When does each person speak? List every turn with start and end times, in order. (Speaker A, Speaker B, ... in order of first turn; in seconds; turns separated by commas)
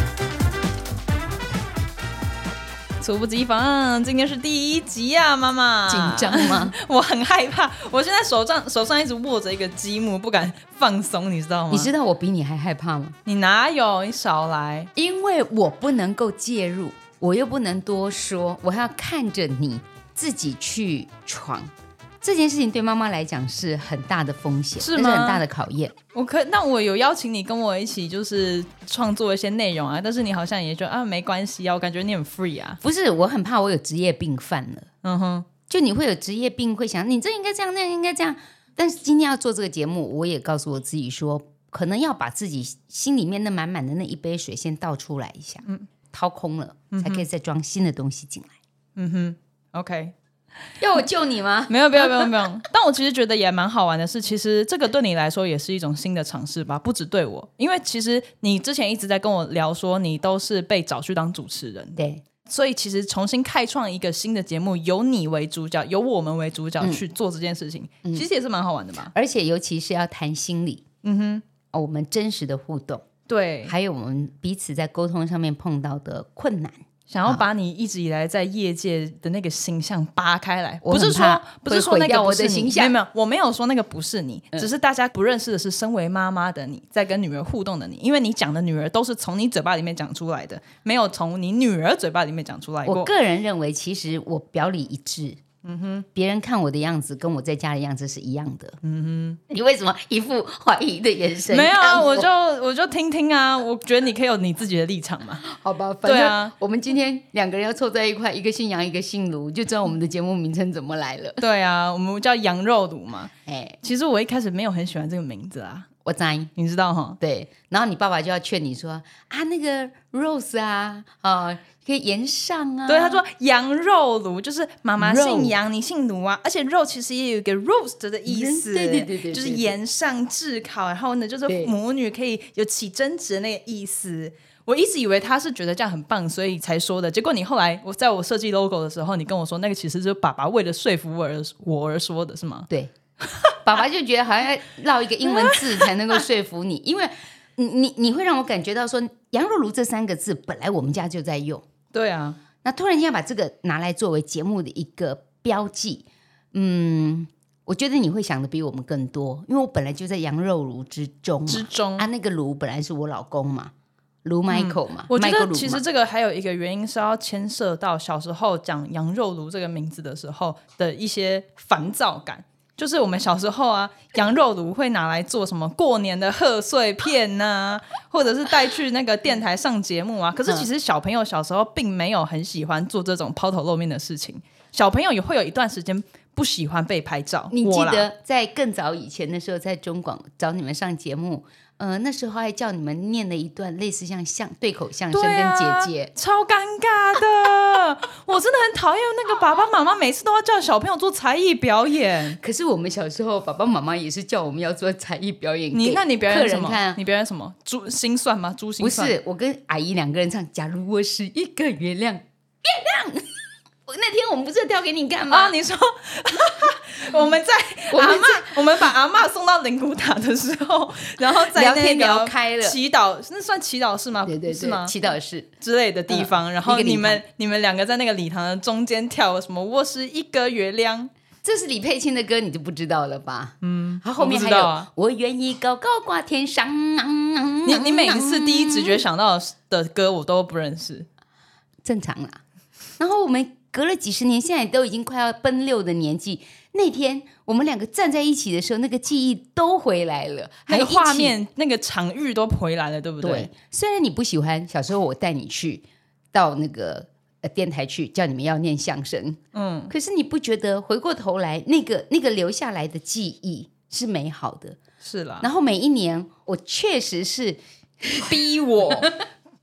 Speaker A: 3.0-11.9, Speaker B: 5.9-6.7, Speaker B: 11.7-13.2, Speaker A: 13.2-14.9, Speaker B: 14.9-25.9, Speaker A: 24.8-25.4, Speaker A: 26.1-32.8, Speaker B: 32.8-34.9, Speaker A: 35.0-35.5, Speaker B: 35.7-48.6, Speaker A: 46.9-47.2, Speaker A: 49.0-50.1, Speaker B: 50.8-52.3, Speaker A: 51.7-69.1, Speaker B: 62.0-62.2, Speaker B: 69.1-70.8, Speaker A: 71.0-71.4, Speaker B: 71.7-73.1, Speaker A: 73.3-73.7, Speaker B: 73.6-77.4, Speaker A: 77.1-93.1, Speaker B: 80.8-83.0, Speaker B: 92.8-95.4, Speaker A: 95.6-96.0, Speaker B: 96.1-98.8, Speaker A: 98.8-99.4, Speaker B: 99.5-102.3, Speaker A: 101.5-105.4, Speaker B: 105.4-111.4, Speaker A: 106.0-106.5, Speaker A: 111.4-113.3, Speaker B: 113.5-113.8, Speaker A: 113.8-115.9, Speaker B: 116.0-116.5, Speaker A: 116.5-117.2, Speaker B: 117.2-123.2, Speaker A: 122.9-142.7, Speaker B: 125.0-125.5, Speaker B: 128.3-129.7, Speaker B: 131.5-131.7, Speaker B: 143.6-151.6, Speaker A: 145.2-145.9, Speaker A: 151.9-152.4, Speaker B: 152.6-163.7, Speaker A: 161.5-162.1, Speaker B: 164.2-165.8, Speaker A: 164.5-188.1, Speaker B: 187.5-196.1, Speaker A: 195.1-202.4, Speaker B: 202.4-207.0, Speaker A: 205.7-209.2, Speaker B: 208.8-213.3, Speaker B: 213.9-215.6, Speaker A: 215.3-224.9, Speaker B: 217.9-218.6, Speaker B: 221.3-222.8, Speaker B: 224.2-225.5, Speaker A: 225.6-231.1, Speaker B: 226.1-227.2, Speaker B: 231.4-239.0, Speaker A: 233.6-234.9, Speaker A: 237.6-241.1, Speaker B: 241.8-242.4, Speaker B: 243.0-251.3, Speaker A: 250.7-253.5, Speaker B: 253.2-264.8, Speaker A: 259.5-259.9, Speaker A: 265.0-265.5, Speaker B: 265.4-268.4, Speaker A: 268.2-269.1